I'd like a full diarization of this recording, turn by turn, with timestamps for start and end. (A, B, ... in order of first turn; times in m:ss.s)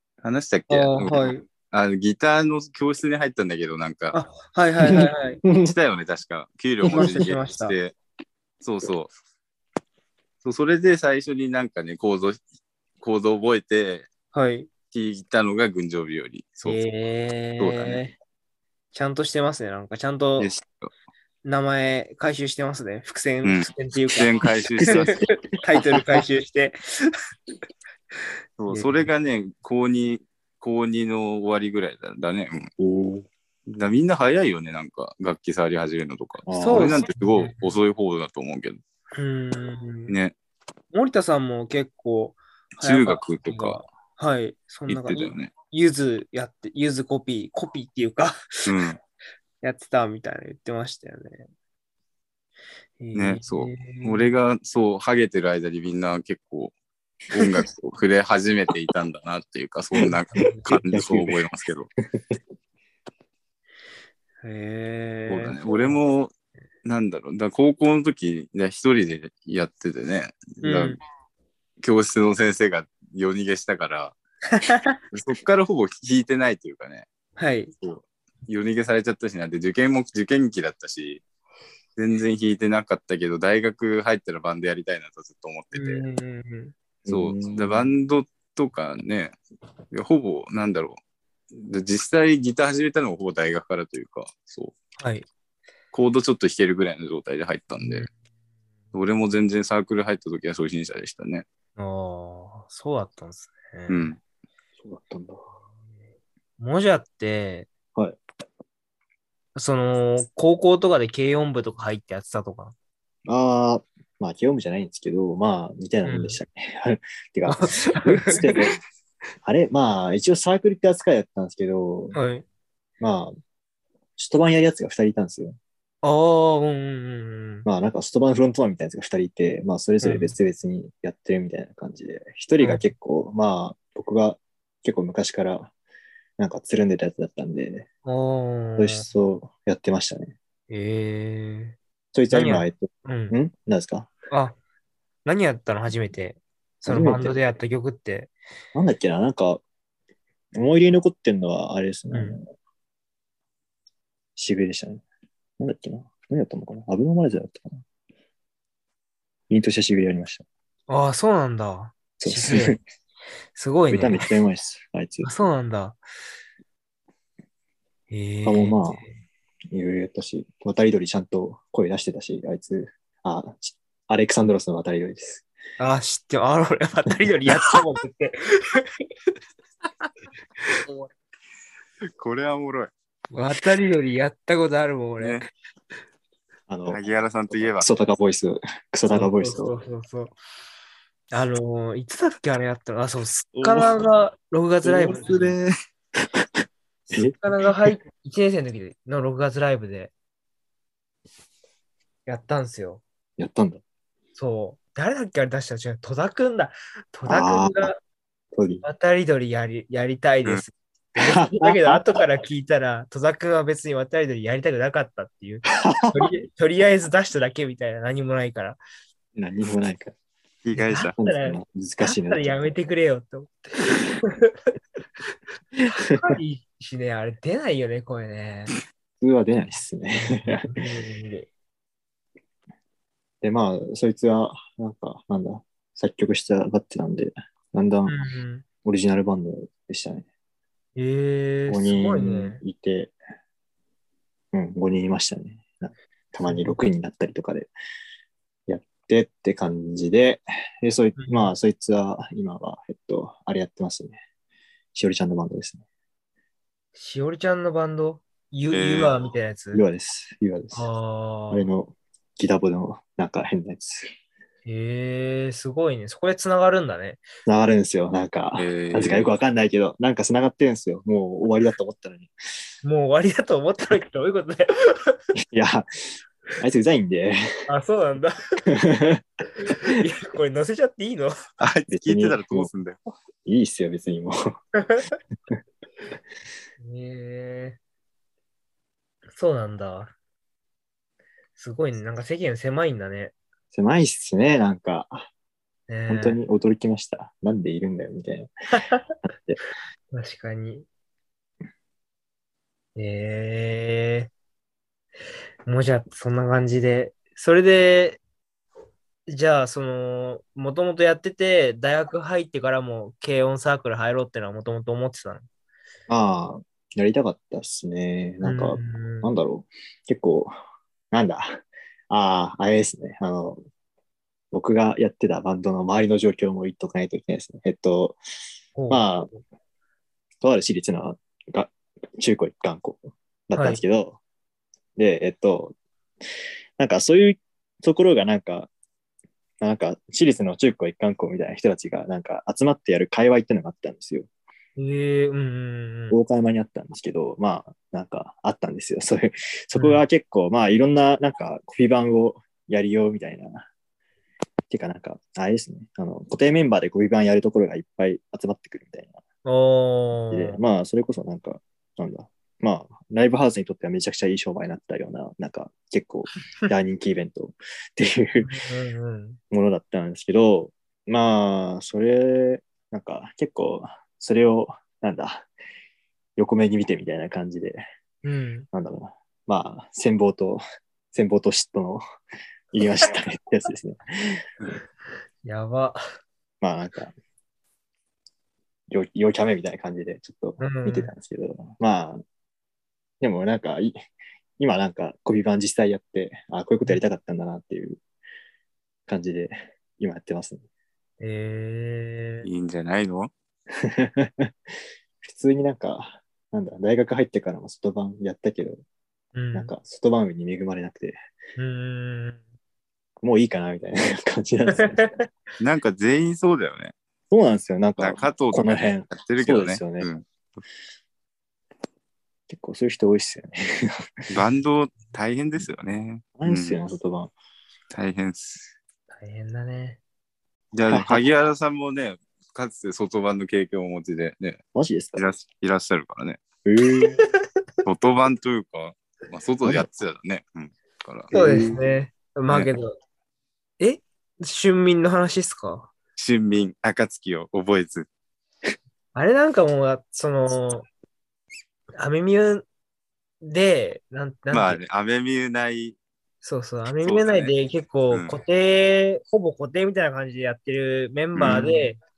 0:00.2-0:04.2 A
0:00.7-0:01.4 B
0:04.1-0:05.4 B
0:04.8-0:05.7 C
0:05.6-0:07.9 A
0:06.8-0:07.1 C
0:06.9-0:07.8 B
0:08.6-0:09.1 A
0:10.4-0:12.4 A
0:13.0-0:14.1 A
0:14.3-0:14.7 B
0:14.9-0:16.8 A
0:16.6-0:18.1 B
0:17.6-0:18.0 A
0:18.9-0:20.5 B
0:20.4-0:20.9 A
0:21.4-0:27.1 B
0:23.4-0:25.3 A
0:24.8-0:26.1 C
0:28.6-0:32.7 A
0:28.7-0:29.0 B
0:32.8-0:33.3 C
0:33.7-0:38.8 A
0:36.4-0:37.0 C
0:36.5-0:37.7 B
0:39.1-0:40.2 B
0:40.1-0:40.3 A
0:40.9-0:48.4 B
0:42.8-0:43.8 A
0:44.9-0:45.5 A
0:48.6-0:49.0 A
0:49.6-0:51.5 B
0:53.0-0:54.3 B
0:53.1-0:56.7 A
0:57.3-1:01.9 A
1:00.3-1:00.6 B
1:00.6-1:01.3 C
1:02.0-1:02.4 C
1:04.4-1:06.0 B
1:05.3-1:06.3 A
1:06.8-1:11.0 A
1:10.6-1:11.0 B
1:11.8-1:14.2 A
1:14.6-1:15.0 B
1:15.1-1:17.1 A
1:17.4-1:17.7 B
1:17.8-1:21.2 A
1:22.0-1:26.0 A
1:25.7-1:26.7 B
1:27.0-1:27.9 C
1:27.1-1:29.4 A
1:29.9-1:31.0 A
1:31.5-1:34.7 A
1:35.0-1:35.2 B
1:35.9-1:38.1 A
1:37.8-1:38.1 B
1:38.9-1:41.4 A
1:41.8-1:44.2 B
1:43.9-1:44.2 A
1:44.8-1:45.4 C
1:46.6-1:47.7 B
1:49.5-1:52.7 B
1:53.3-1:58.8 C
1:56.0-1:56.4 B
1:57.5-1:58.5 B
1:59.4-2:02.2 C
2:02.1-2:02.4 B
2:03.0-2:03.3 C
2:04.2-2:05.6 C
2:06.0-2:07.6 B
2:07.6-2:15.7 C
2:10.0-2:10.3 B
2:12.6-2:12.9 B
2:16.4-2:17.9 C
2:18.0-2:19.0 B
2:18.8-2:20.4 C
2:20.7-2:21.8 B
2:22.1-2:24.1 C
2:22.3-2:23.3 B
2:24.3-2:24.6 B
2:25.2-2:28.3 B
2:26.8-2:27.4 C
2:28.7-2:29.6 C
2:30.6-2:32.4 C
2:32.1-2:32.4 B
2:34.4-2:35.0 C
2:35.6-2:37.8 C
2:39.5-2:40.4 C
2:40.9-2:42.8 B
2:42.2-2:42.8 C
2:43.5-2:44.3 B
2:43.9-2:45.4 C
2:45.2-2:46.0 B
2:48.1-2:49.0 B
2:48.4-2:49.0 C
2:49.7-2:55.4 C
2:55.8-2:58.8 B
3:00.7-3:01.1 B
3:02.2-3:02.9 A
3:03.3-3:05.4 B
3:05.2-3:05.4 A
3:06.7-3:07.0 C
3:06.9-3:07.9 A
3:07.5-3:09.7 C
3:09.1-3:10.3 B
3:11.3-3:15.5 B
3:13.5-3:13.9 A
3:14.9-3:15.2 C
3:14.9-3:15.7 A
3:17.1-3:20.1 B
3:17.1-3:17.4 C
3:22.2-3:23.0 B
3:23.4-3:23.8 C
3:24.3-3:28.0 B
3:27.2-3:27.9 C
3:28.5-3:28.8 C
3:28.8-3:38.8 B
3:31.2-3:32.1 C
3:35.7-3:36.1 C
3:39.4-3:40.1 C
3:40.6-3:41.2 A
3:40.7-3:44.5 B
3:41.0-3:42.7 C
3:46.0-3:48.7 B
3:49.2-3:50.7 C
3:50.2-3:51.5 B
3:53.4-3:58.2 C
3:58.1-3:58.6 B
3:58.8-4:00.2 C
4:01.0-4:02.6 B
4:01.7-4:03.2 C
4:04.5-4:07.7 C
4:06.4-4:06.8 B
4:08.7-4:14.2 C
4:11.2-4:11.6 B
4:14.9-4:15.8 C
4:16.9-4:19.8 B
4:18.7-4:19.3 A
4:19.7-4:20.9 C
4:20.7-4:21.7 B
4:21.5-4:24.1 C
4:24.6-4:27.2 B
4:27.4-4:32.3 C
4:28.6-4:29.3 A
4:32.8-4:35.2 B
4:35.5-4:35.9 C
4:36.6-4:37.4 C
4:37.7-4:38.6 B
4:38.7-4:39.2 C
4:39.6-4:41.3 B
4:41.6-4:43.0 A
4:41.9-4:42.7 C
4:43.4-4:44.3 C
4:44.8-4:45.0 B
4:46.8-4:47.8 B
4:49.3-4:50.1 B
4:51.6-4:53.3 B
4:53.7-4:55.3 C
4:55.9-4:56.4 B
4:56.1-4:58.5 C
4:59.2-4:59.6 C
5:00.1-5:00.8 B
5:03.0-5:04.3 B
5:05.7-5:08.2 B
5:09.3-5:15.5 B
5:16.1-5:20.5 C
5:18.4-5:19.3 B
5:21.1-5:23.6 C
5:24.5-5:28.2 C
5:28.8-5:29.1 B
5:28.9-5:29.3 C
5:30.4-5:34.2 C
5:33.6-5:33.8 B
5:35.0-5:35.7 C
5:36.8-5:38.7 C
5:39.6-5:44.3 C
5:44.8-5:46.2 B
5:46.1-5:53.7 C
5:49.8-5:50.0 B
5:54.7-5:59.2 C
5:59.4-6:00.6 B
6:00.3-6:08.5 C
6:08.4-6:09.4 B
6:09.5-6:15.5 C
6:16.4-6:17.8 C
6:18.2-6:18.7 B
6:18.7-6:20.6 C
6:21.1-6:22.0 C
6:22.7-6:24.4 C
6:25.4-6:26.0 B
6:26.6-6:27.1 C
6:28.9-6:32.2 C
6:30.6-6:31.1 B
6:33.2-6:34.0 C
6:34.6-6:38.0 C
6:39.1-6:40.6 C
6:41.2-6:42.5 B
6:42.4-6:43.3 A
6:43.8-6:44.5 C
6:45.2-6:48.8 C
6:49.3-6:49.7 B
6:49.5-6:51.2 C
6:51.6-6:52.4 B
6:53.2-6:55.1 C
6:54.8-6:55.1 B
6:55.6-6:56.9 A
6:57.3-7:00.1 C
6:58.0-7:00.6 A
7:02.5-7:03.6 C
7:04.3-7:06.8 A
7:06.4-7:07.3 C
7:07.9-7:08.7 A
7:09.1-7:10.0 B
7:10.7-7:14.6 A
7:10.9-7:11.2 C
7:14.7-7:15.2 C
7:15.1-7:16.4 A
7:16.7-7:17.2 C
7:17.8-7:21.3 A
7:19.6-7:19.9 C
7:21.3-7:22.0 C
7:21.3-7:22.9 B
7:23.8-7:25.9 B
7:26.2-7:28.1 A
7:29.1-7:30.9 B
7:32.0-7:32.7 B
7:33.4-7:34.8 B
7:34.5-7:36.0 A
7:36.4-7:42.0 B
7:37.0-7:37.5 A
7:38.1-7:38.4 A
7:41.4-7:41.9 A
7:41.4-7:41.7 C